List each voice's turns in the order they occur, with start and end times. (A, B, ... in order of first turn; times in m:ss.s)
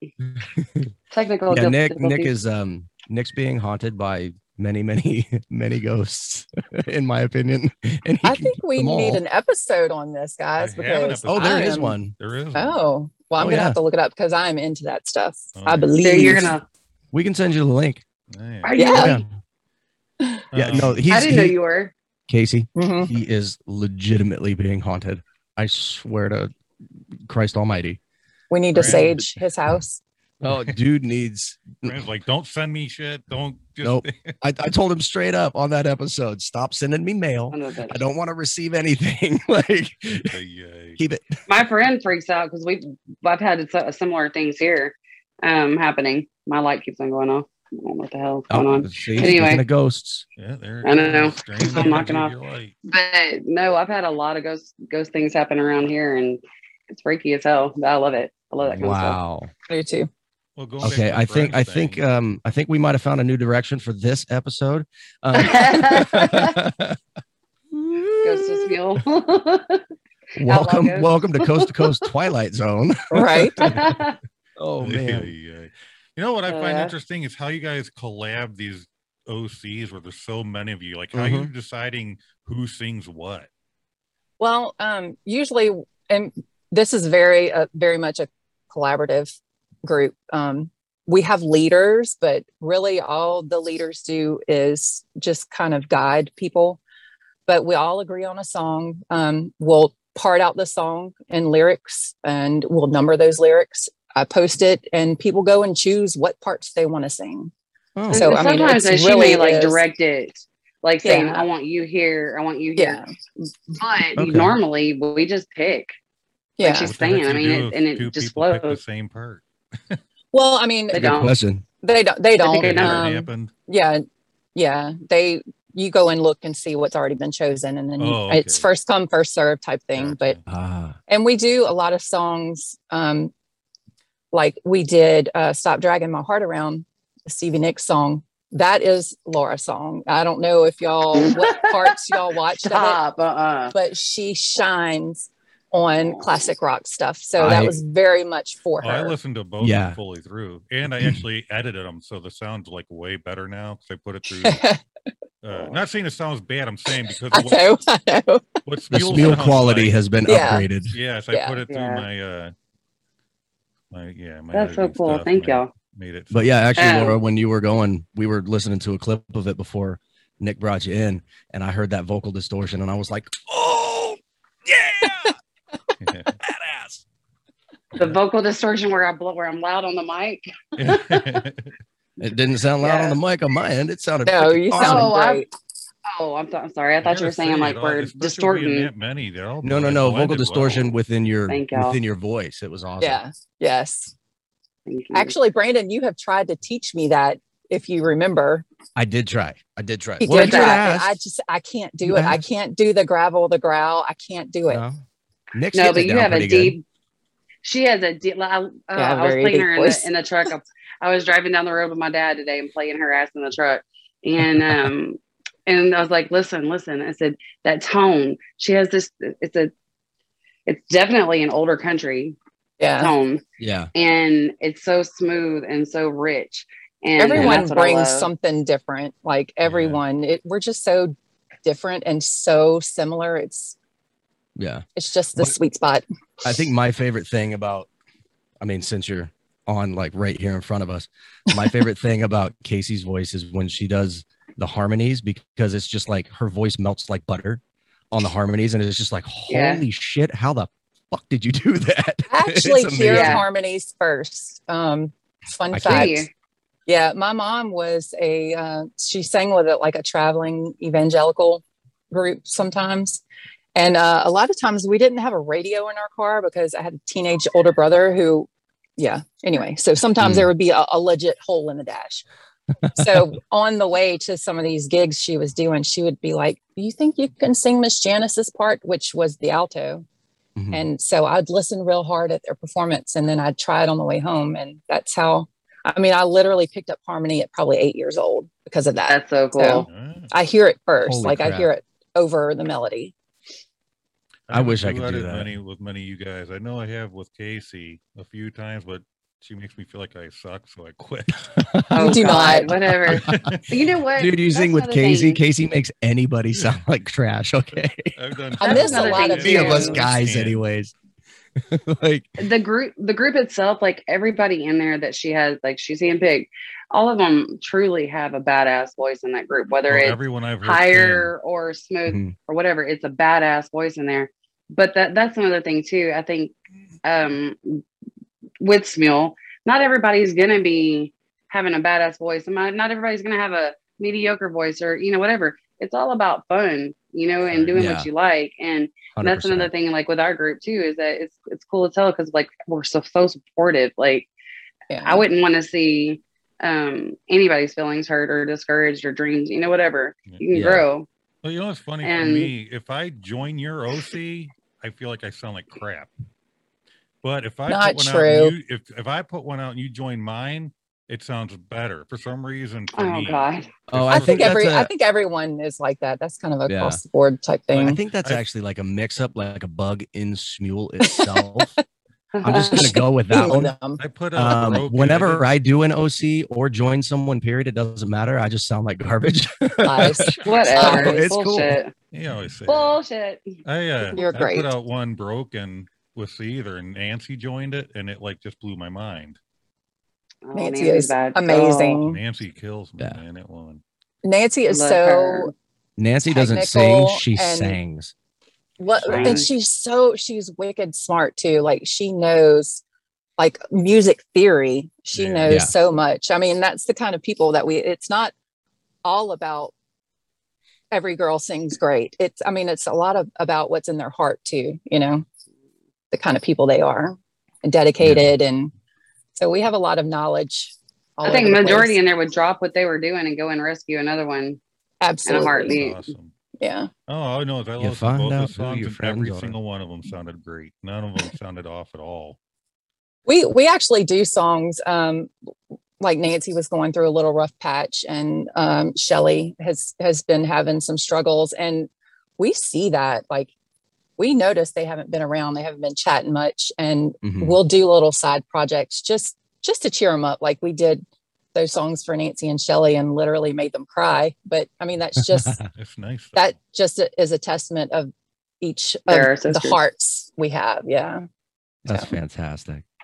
0:00.3-0:00.9 A
0:01.1-0:02.3 B
0:01.5-0:09.2 A
0:08.2-0:12.0 C
0:10.6-0:12.8 D
0:11.3-0:12.1 A
0:12.5-0:16.6 C
0:13.4-0:13.8 A
0:15.6-0:16.4 D
0:16.0-0:16.6 B
0:17.1-0:18.0 A
0:18.3-0:18.9 D
0:18.6-0:19.2 B
0:18.7-0:19.2 C
0:18.8-0:19.3 A
0:20.5-0:21.1 D
0:20.5-0:21.5 A
0:21.1-0:21.9 B
0:22.3-0:26.5 A
0:22.8-0:23.1 C
0:27.2-0:28.0 A
0:28.5-0:30.0 C
0:28.7-0:29.3 D
0:28.8-0:29.2 A
0:30.4-0:32.0 A
0:30.5-0:30.8 D
0:31.8-0:34.3 D
0:33.8-0:40.4 A
0:37.5-0:38.0 B
0:40.2-0:41.0 D
0:41.0-0:41.4 A
0:41.5-0:49.6 B
0:48.5-0:50.2 A
0:50.4-0:52.7 D
0:50.8-0:52.3 B
0:52.9-0:59.2 B
0:58.6-0:59.5 A
0:59.7-1:00.1 C
1:00.6-1:02.0 D
1:00.8-1:07.0 A
1:05.4-1:06.5 B
1:07.7-1:09.0 A
1:08.2-1:09.8 B
1:10.4-1:13.9 A
1:10.4-1:11.9 B
1:13.1-1:13.7 C
1:13.6-1:14.2 B
1:14.6-1:15.3 A
1:14.8-1:23.5 D
1:16.5-1:16.9 B
1:21.1-1:21.5 A
1:24.4-1:36.8 C
1:37.5-1:47.5 C
1:48.0-1:48.3 A
1:48.1-1:49.8 C
1:48.1-1:53.0 B
1:51.0-1:51.5 C
1:52.8-1:53.1 C
1:53.7-1:55.9 B
1:54.2-1:54.5 A
1:56.6-1:56.9 C
1:56.6-1:58.8 B
1:56.8-2:00.0 D
2:00.3-2:01.1 C
2:00.9-2:01.3 B
2:00.9-2:01.6 A
2:01.8-2:10.4 C
2:02.4-2:03.1 B
2:02.6-2:03.5 D
2:08.0-2:08.6 D
2:09.9-2:10.4 D
2:10.5-2:11.0 A
2:11.1-2:13.3 C
2:14.3-2:23.0 C
2:21.1-2:23.8 B
2:23.7-2:29.1 C
2:25.9-2:26.5 B
2:27.4-2:27.8 A
2:28.8-2:34.6 D
2:29.6-2:30.0 A
2:34.4-2:34.8 C
2:35.4-2:37.7 D
2:35.5-2:35.8 B
2:37.3-2:38.6 C
2:38.6-2:40.0 D
2:38.9-2:40.9 A
2:40.2-2:40.7 C
2:40.9-2:42.5 D
2:41.3-2:41.6 C
2:41.7-2:42.1 B
2:43.9-2:46.8 D
2:44.5-2:45.7 B
2:46.3-2:55.3 A
2:46.8-2:47.2 B
2:56.0-2:56.4 D
2:56.4-2:57.0 A
2:58.0-3:01.4 B
3:00.8-3:01.7 D
3:02.2-3:05.1 A
3:02.8-3:03.2 B
3:04.2-3:05.5 C
3:04.8-3:05.4 B
3:06.0-3:08.9 B
3:07.0-3:10.9 D
3:09.6-3:13.2 A
3:11.5-3:12.0 B
3:13.0-3:14.1 C
3:14.8-3:15.3 B
3:15.1-3:18.6 C
3:19.0-3:21.2 A
3:20.2-3:20.8 B
3:20.2-3:24.8 C
3:22.0-3:22.4 A
3:24.7-3:25.0 A
3:25.5-3:26.8 A
3:25.7-3:26.8 B
3:27.6-3:39.7 B
3:28.9-3:30.1 C
3:34.4-3:34.7 A
3:40.6-3:42.4 B
3:42.8-3:43.1 C
3:43.0-3:43.4 B
3:43.6-3:43.9 A
3:43.9-3:48.3 B
3:47.2-3:53.8 C
3:47.4-3:47.6 A
3:49.6-3:50.0 D
3:54.6-3:54.8 A
3:55.0-3:56.0 C
3:56.4-3:57.9 A
3:58.6-4:13.4 A
4:09.5-4:09.8 B
4:12.3-4:16.3 C
4:13.1-4:13.4 B
4:15.7-4:16.2 A
4:15.8-4:16.3 B
4:16.9-4:23.2 C
4:23.8-4:32.2 C
4:30.2-4:30.5 A
4:32.9-4:40.0 C
4:33.0-4:33.2 A
4:40.6-4:40.8 A
4:40.7-4:53.1 C
4:49.1-4:49.8 B
4:49.9-4:50.3 D
4:51.0-4:51.7 A
4:54.5-5:01.7 D
4:54.5-4:55.5 A
5:01.5-5:02.4 A
5:01.9-5:05.4 B
5:02.0-5:02.7 C
5:03.0-5:03.6 A
5:03.0-5:03.7 D
5:04.2-5:08.1 A
5:08.1-5:10.6 D
5:08.6-5:10.0 B
5:08.6-5:09.9 C
5:09.3-5:10.9 A
5:11.7-5:12.4 A
5:12.4-5:27.8 B
5:19.9-5:21.3 D
5:22.1-5:22.3 A
5:28.6-5:44.3 B
5:37.4-5:37.8 D
5:37.8-5:38.1 A
5:39.1-5:39.7 A
5:44.9-5:45.2 C
5:45.0-5:51.1 B
5:50.5-5:50.8 A
5:51.4-5:56.1 D
5:52.0-5:52.5 B
5:57.2-6:04.5 D
5:57.7-5:58.5 C
6:02.9-6:03.7 B
6:03.9-6:04.9 A
6:04.1-6:08.0 C
6:06.6-6:07.0 A
6:07.7-6:11.8 A
6:11.1-6:11.6 C
6:12.3-6:12.9 B
6:12.4-6:13.8 A
6:12.8-6:14.0 C
6:14.0-6:15.5 D
6:14.3-6:21.8 A
6:19.8-6:21.2 C
6:20.4-6:21.9 B
6:22.1-6:23.0 D
6:22.7-6:23.5 B
6:23.6-6:29.4 D
6:24.2-6:24.7 C
6:30.5-6:32.0 B
6:30.5-6:32.2 C
6:32.0-6:33.8 D
6:34.2-6:35.5 C
6:34.7-6:35.5 B
6:36.0-6:38.1 A
6:36.3-6:37.8 C
6:38.8-6:42.8 C
6:39.0-6:39.5 D
6:39.1-6:39.4 A
6:43.4-6:48.3 C
6:45.1-6:45.5 D
6:45.5-6:45.7 A
6:49.0-6:49.7 C
6:50.9-6:55.2 C
6:56.1-6:58.7 C
6:58.0-6:58.3 A
6:59.4-7:02.0 C
7:01.2-7:04.6 B
7:05.0-7:05.8 C
7:05.2-7:06.1 B
7:05.7-7:06.3 D
7:06.6-7:06.9 C
7:07.1-7:12.4 D
7:07.8-7:09.6 A
7:13.2-7:15.3 C
7:16.0-7:23.5 C
7:24.2-7:35.6 C
7:27.2-7:27.6 A
7:35.3-7:35.6 A
7:35.8-7:36.5 D
7:36.3-7:41.2 C
7:39.1-7:39.8 B
7:41.8-7:42.8 A
7:41.9-7:42.1 C